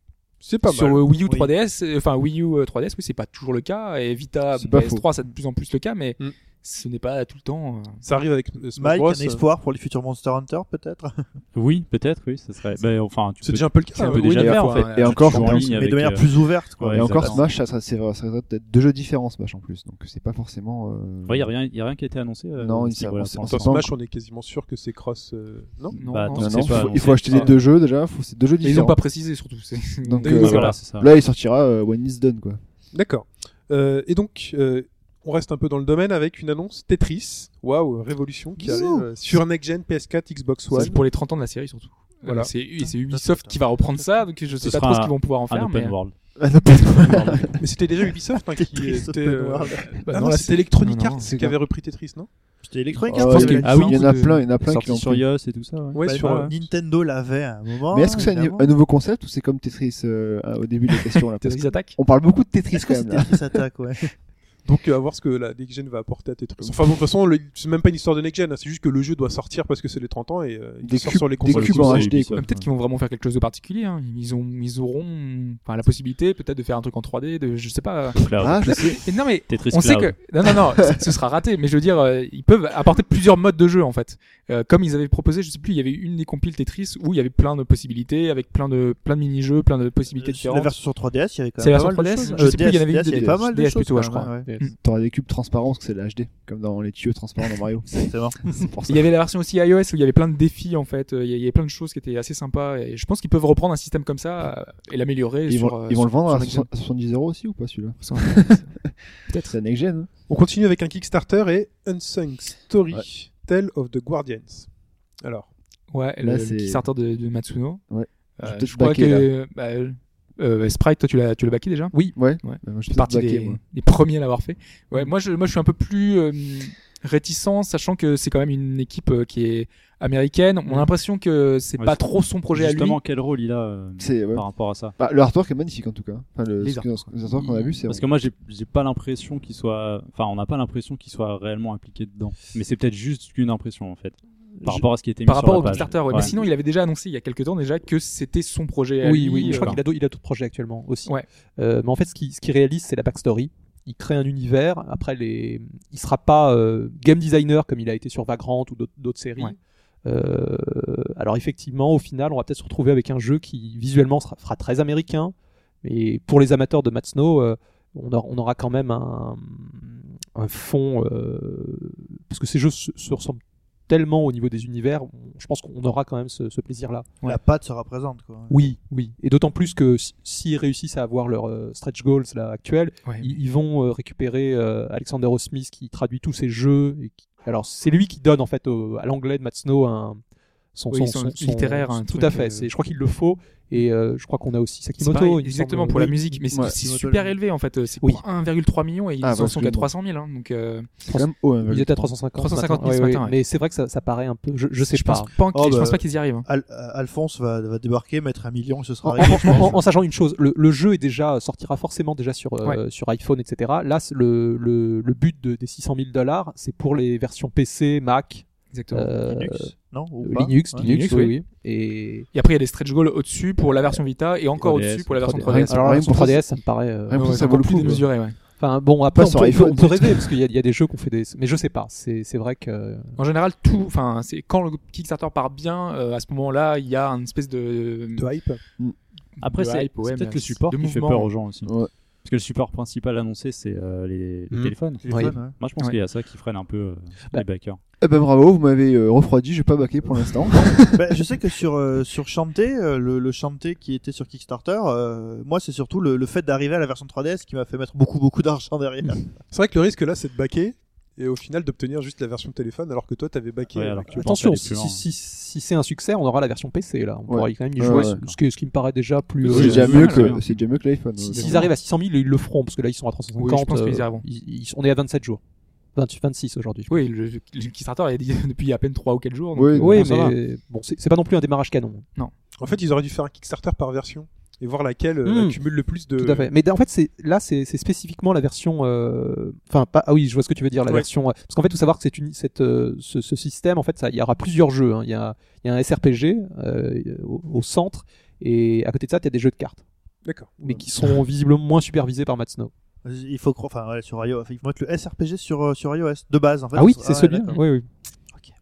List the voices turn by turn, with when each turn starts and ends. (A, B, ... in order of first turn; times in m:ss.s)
0:00.4-0:01.1 A
0:00.6-0:08.0 B
0:04.5-0:05.0 C
0:08.0-0:09.4 A
0:08.8-0:11.2 D
0:11.5-0:17.4 E
0:13.4-0:14.6 A
0:14.0-0:15.7 B
0:14.2-0:15.8 C
0:15.4-0:17.4 D
0:16.9-0:21.5 C
0:21.2-0:23.9 E
0:22.6-0:23.9 C
0:23.4-0:26.0 A
0:25.9-0:27.5 B
0:26.0-0:27.5 E
0:26.4-0:29.0 C
0:28.6-0:30.7 B
0:30.0-0:32.6 C
0:30.2-0:30.7 A
0:30.3-0:31.1 E
0:32.9-0:41.0 A
0:38.6-0:39.1 D
0:40.7-0:46.0 B
0:42.2-0:42.5 A
0:42.8-0:44.2 D
0:44.6-0:46.4 E
0:46.4-0:47.6 C
0:47.0-0:47.5 E
0:47.6-0:52.5 A
0:48.6-0:50.0 D
0:49.9-0:51.3 B
0:51.2-0:51.6 C
0:52.6-0:54.0 D
0:53.1-0:55.2 C
0:53.6-0:56.5 E
0:55.9-0:56.5 A
0:56.0-0:58.7 D
0:57.9-1:03.4 C
1:01.4-1:02.0 B
1:02.7-1:04.1 D
1:04.6-1:12.3 A
1:10.8-1:12.4 C
1:11.4-1:12.6 E
1:12.3-1:30.7 B
1:18.2-1:20.2 E
1:18.4-1:19.0 C
1:30.2-1:34.5 D
1:31.6-1:34.7 B
1:31.7-1:32.3 A
1:34.8-1:39.1 C
1:37.9-1:38.4 D
1:38.9-1:46.7 B
1:45.5-1:48.9 C
1:48.0-1:48.7 B
1:49.3-1:49.5 B
1:49.4-1:50.1 C
1:50.3-1:54.7 A
1:55.2-1:55.5 A
1:55.9-1:57.8 B
1:56.2-1:56.8 C
1:57.9-1:59.3 C
1:58.4-2:13.0 B
2:02.1-2:03.6 C
2:11.8-2:15.0 E
2:14.0-2:14.4 C
2:15.0-2:18.0 C
2:16.6-2:17.2 B
2:17.8-2:26.3 E
2:25.2-2:29.8 B
2:29.0-2:57.1 F
2:29.4-2:29.8 E
2:57.2-2:58.5 D
2:58.5-3:10.2 F
3:10.7-3:16.4 F
3:10.9-3:12.7 B
3:15.0-3:21.0 B
3:16.6-3:17.3 D
3:19.2-3:19.9 C
3:21.0-3:22.1 C
3:21.1-3:25.3 F
3:22.4-3:23.3 B
3:24.9-3:26.4 B
3:25.5-3:29.8 D
3:29.0-3:42.3 F
3:38.7-3:39.1 B
3:39.3-3:40.9 D
3:40.8-3:41.4 B
3:42.3-3:46.3 B
3:44.6-3:45.7 E
3:45.2-3:47.9 F
3:45.5-3:46.5 C
3:47.0-3:48.1 C
3:47.1-3:48.4 B
3:48.6-3:53.2 F
3:49.1-3:50.3 C
3:53.2-3:58.3 B
3:58.2-3:58.6 A
3:59.4-4:01.3 B
3:59.4-4:07.8 E
4:01.6-4:01.9 C
4:04.5-4:05.4 F
4:05.0-4:05.6 D
4:08.0-4:11.0 C
4:10.9-4:19.4 D
4:19.5-4:24.1 A
4:23.7-4:25.0 E
4:24.1-4:30.2 F
4:27.3-4:28.2 C
4:27.8-4:28.4 E
4:29.4-4:30.6 E
4:29.4-4:31.7 C
4:29.5-4:30.3 B
4:31.2-4:35.4 F
4:31.3-4:31.7 B
4:33.4-4:34.2 B
4:35.9-4:37.0 F
4:36.9-4:40.2 B
4:39.5-4:40.2 C
4:39.8-4:42.0 F
4:42.6-4:46.5 A
4:45.2-4:45.6 F
4:46.1-4:59.8 F
5:00.2-5:00.8 A
5:00.6-5:02.7 F
5:03.0-5:07.6 D
5:06.7-5:07.9 F